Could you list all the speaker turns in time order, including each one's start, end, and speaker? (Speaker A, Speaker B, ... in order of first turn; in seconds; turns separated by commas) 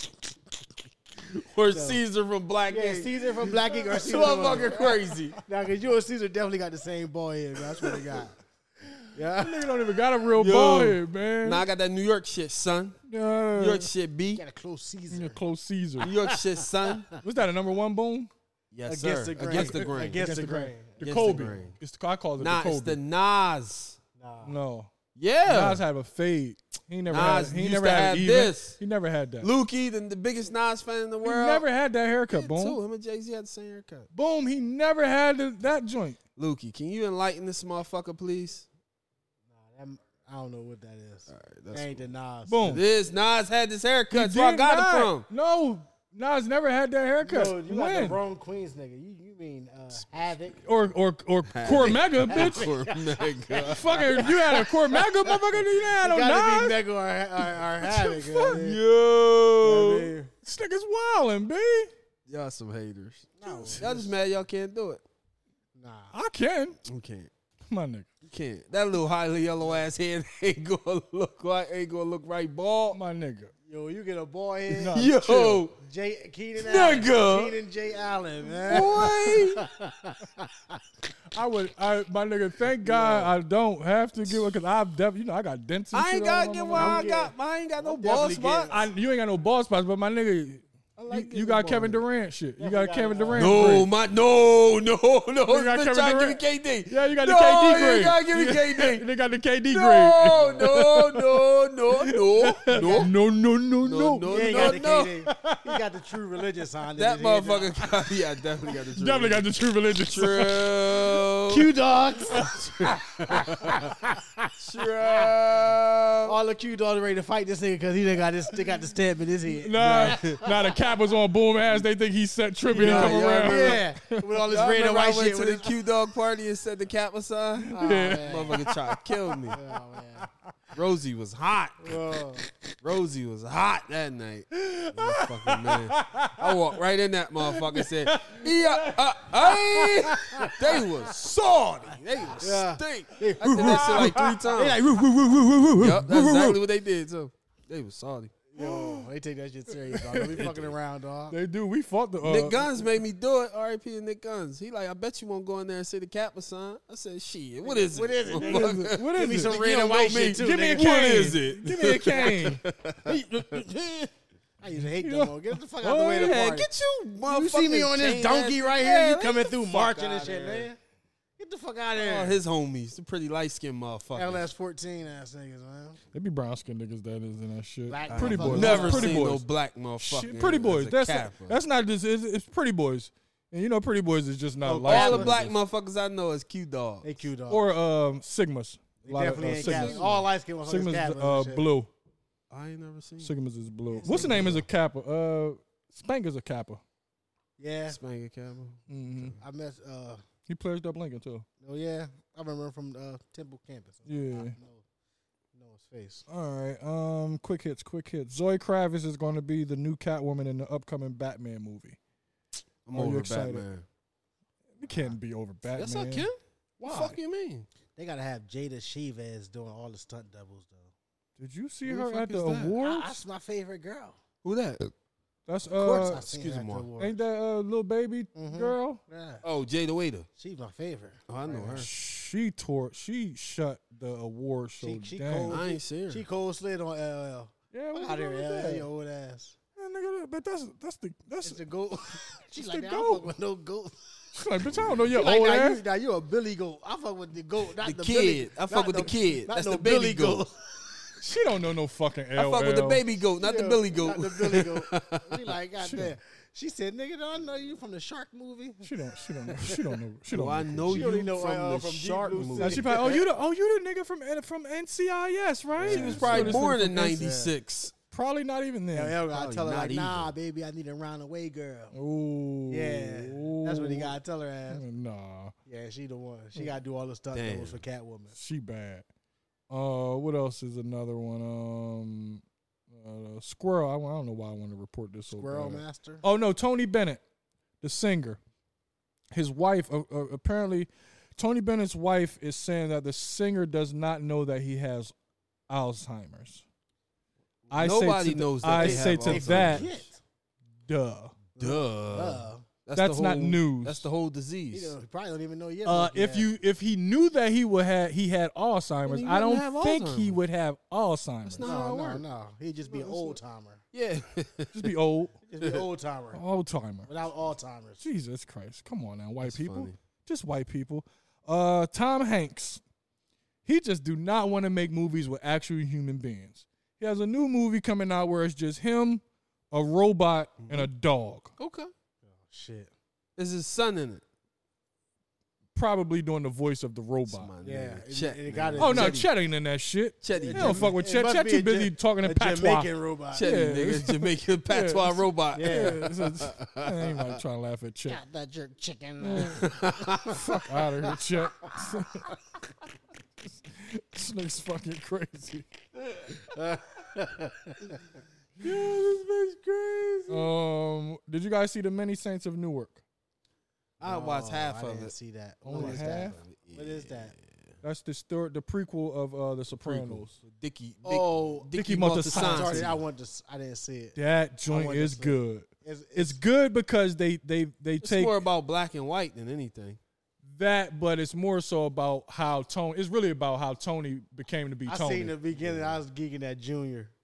Speaker A: 1.2-5.4, Speaker B: 1.7-2.0, Speaker B: 2.7-8.4, Speaker B: 9.1-9.8, Speaker C: 9.4-11.7, Speaker A: 10.4-13.0, Speaker C: 13.1-13.9, Speaker A: 13.6-14.4, Speaker B: 14.3-15.4, Speaker C: 15.1-16.1, Speaker A: 16.0-17.1, Speaker B: 16.0-17.1, Speaker C: 17.2-18.3, Speaker A: 18.7-20.3, Speaker B: 18.9-21.1, Speaker C: 19.4-23.0, Speaker A: 21.0-21.8, Speaker A: 22.4-24.0, Speaker B: 24.2-24.5, Speaker C: 24.4-24.9, Speaker A: 25.1-25.8, Speaker C: 25.5-29.5, Speaker A: 27.1-28.8, Speaker A: 29.4-31.7, Speaker C: 31.2-32.8, Speaker A: 32.3-34.1, Speaker C: 34.1-36.2, Speaker A: 36.4-38.7, Speaker B: 39.5-42.7, Speaker A: 41.3-42.1, Speaker C: 42.5-42.8, Speaker A: 42.6-45.3, Speaker C: 44.1-48.2, Speaker B: 47.2-50.6, Speaker C: 50.6-52.6, Speaker A: 51.5-54.3, Speaker B: 51.7-58.8, Speaker C: 53.6-56.8, Speaker C: 57.5-58.6, Speaker A: 58.5-60.1, Speaker B: 59.6-60.3, Speaker C: 60.4-61.9, Speaker A: 62.3-65.0, Speaker B: 63.4-64.1, Speaker C: 63.5-63.9, Speaker B: 65.8-66.1, Speaker C: 66.1-66.8, Speaker A: 66.8-67.3, Speaker C: 67.7-68.1, Speaker A: 68.2-73.0, Speaker C: 72.9-73.5, Speaker B: 73.7-75.1, Speaker C: 74.7-75.6, Speaker A: 74.9-75.8, Speaker B: 75.7-80.8, Speaker A: 76.6-77.6, Speaker A: 78.7-79.7, Speaker C: 81.3-87.1, Speaker B: 82.8-83.3, Speaker A: 85.9-88.8, Speaker B: 86.8-88.9, Speaker C: 88.7-93.9, Speaker B: 91.0-92.0, Speaker B: 92.6-93.9, Speaker A: 93.3-99.1, Speaker C: 95.5-101.4, Speaker A: 99.7-103.1, Speaker B: 100.3-100.7, Speaker C: 102.0-105.8, Speaker B: 102.7-103.1, Speaker A: 103.8-105.2, Speaker B: 104.3-107.9, Speaker A: 107.0-109.5, Speaker C: 109.0-111.2, Speaker A: 110.1-111.7, Speaker B: 111.5-115.4, Speaker A: 113.3-113.7, Speaker A: 114.6-116.4, Speaker B: 116.2-120.9, Speaker C: 119.5-124.3, Speaker A: 119.9-120.4, Speaker B: 122.7-125.7, Speaker A: 122.7-123.8, Speaker A: 124.5-129.6, Speaker C: 127.7-129.8, Speaker B: 127.7-128.6, Speaker B: 129.5-130.3, Speaker A: 130.7-132.0, Speaker B: 131.8-132.5, Speaker A: 132.8-141.3, Speaker C: 134.5-136.5, Speaker C: 137.4-139.8, Speaker B: 140.1-146.5, Speaker A: 141.8-144.8, Speaker C: 143.4-144.5, Speaker C: 145.6-146.5, Speaker A: 145.8-148.4, Speaker B: 148.5-151.4, Speaker C: 148.6-149.1, Speaker C: 149.7-150.6, Speaker A: 150.3-150.7, Speaker C: 151.3-152.7, Speaker A: 152.2-163.7, Speaker B: 157.6-161.0, Speaker C: 158.4-159.6, Speaker C: 160.3-162.6, Speaker B: 163.1-164.1, Speaker B: 164.6-166.7, Speaker C: 164.7-166.3, Speaker A: 165.8-170.7, Speaker B: 167.2-170.8, Speaker B: 171.4-172.4, Speaker A: 171.9-174.5, Speaker B: 174.2-176.0, Speaker C: 176.1-179.5, Speaker B: 177.9-179.2, Speaker A: 178.1-181.6, Speaker C: 180.0-185.5, Speaker B: 184.6-185.4, Speaker A: 184.8-187.1, Speaker B: 187.0-187.7, Speaker C: 187.5-191.9, Speaker B: 189.1-191.7, Speaker A: 189.5-190.2, Speaker A: 192.5-193.3, Speaker C: 193.2-196.8, Speaker B: 193.9-194.7, Speaker A: 194.0-194.6, Speaker B: 197.6-198.0, Speaker A: 197.9-199.4, Speaker C: 198.9-199.4, Speaker B: 199.4-200.2, Speaker C: 200.5-201.5, Speaker B: 201.6-204.8, Speaker C: 204.1-204.6, Speaker B: 205.5-206.3, Speaker C: 206.3-212.0, Speaker A: 212.9-213.9, Speaker C: 212.9-213.7, Speaker C: 214.8-216.3, Speaker A: 215.8-217.7, Speaker C: 216.8-217.2, Speaker B: 218.0-220.9, Speaker C: 221.4-223.2, Speaker A: 221.9-222.8, Speaker B: 222.7-224.2, Speaker A: 224.4-224.9, Speaker C: 225.5-226.3, Speaker B: 225.7-227.2, Speaker A: 226.2-226.9, Speaker C: 227.0-229.0, Speaker B: 228.3-229.4, Speaker A: 229.4-230.3, Speaker B: 230.4-231.9, Speaker A: 231.3-231.9, Speaker C: 231.8-235.6, Speaker B: 234.8-239.6, Speaker A: 235.5-236.2, Speaker C: 237.7-238.9, Speaker C: 239.8-241.6, Speaker B: 241.4-244.1, Speaker C: 242.6-243.3, Speaker C: 244.3-245.8, Speaker B: 245.1-250.6, Speaker A: 247.8-250.5, Speaker C: 251.2-253.0, Speaker A: 252.3-255.5, Speaker B: 253.4-259.9, Speaker C: 255.8-256.1, Speaker C: 258.8-261.1, Speaker A: 260.3-263.1, Speaker B: 260.9-263.3, Speaker C: 262.6-267.1, Speaker B: 265.8-267.5, Speaker A: 265.8-267.9, Speaker C: 268.1-269.2, Speaker B: 268.9-271.9, Speaker A: 269.3-270.3, Speaker C: 271.9-274.1, Speaker B: 272.7-274.8, Speaker C: 274.7-275.5, Speaker B: 275.7-278.4, Speaker A: 277.3-277.8, Speaker C: 278.3-279.1, Speaker C: 279.7-287.2, Speaker B: 285.3-286.2, Speaker C: 287.8-288.4, Speaker C: 289.3-295.1, Speaker C: 295.7-296.6, Speaker C: 297.7-299.9, Speaker A: 297.7-300.0, Speaker B: 298.6-300.2, Speaker C: 300.9-301.4, Speaker B: 301.6-302.7, Speaker A: 301.6-304.9, Speaker C: 302.9-304.1, Speaker B: 304.7-306.5, Speaker C: 305.9-311.7, Speaker A: 309.1-310.4, Speaker A: 311.4-312.2, Speaker B: 311.6-313.8, Speaker A: 312.9-313.4, Speaker A: 313.9-314.9, Speaker C: 314.7-315.4, Speaker B: 315.5-316.4, Speaker A: 315.6-315.9, Speaker C: 316.3-317.1, Speaker B: 317.1-318.0, Speaker C: 318.0-322.8, Speaker A: 319.4-320.0, Speaker C: 323.6-331.5, Speaker A: 330.6-330.9, Speaker A: 331.6-331.9, Speaker B: 332.2-332.9, Speaker A: 333.4-334.2, Speaker C: 335.8-337.5, Speaker A: 337.3-339.3, Speaker B: 337.6-339.3, Speaker C: 338.8-348.2, Speaker A: 340.2-341.0, Speaker B: 340.3-343.5, Speaker A: 343.4-347.4, Speaker B: 345.5-346.1, Speaker B: 348.1-351.4, Speaker C: 349.2-349.7, Speaker A: 349.6-350.3, Speaker C: 350.3-352.3, Speaker C: 353.5-355.8, Speaker B: 356.4-357.9, Speaker A: 358.6-360.5, Speaker C: 358.6-358.9, Speaker C: 360.3-363.0, Speaker A: 364.0-365.1, Speaker B: 364.0-367.3, Speaker C: 365.6-366.4, Speaker A: 365.7-367.7, Speaker C: 367.8-370.4, Speaker A: 369.8-373.0, Speaker B: 371.0-371.7, Speaker C: 371.7-372.9, Speaker B: 372.3-376.4, Speaker C: 374.1-378.4, Speaker A: 378.0-380.0, Speaker C: 380.4-385.4, Speaker B: 384.9-387.1, Speaker A: 385.6-385.9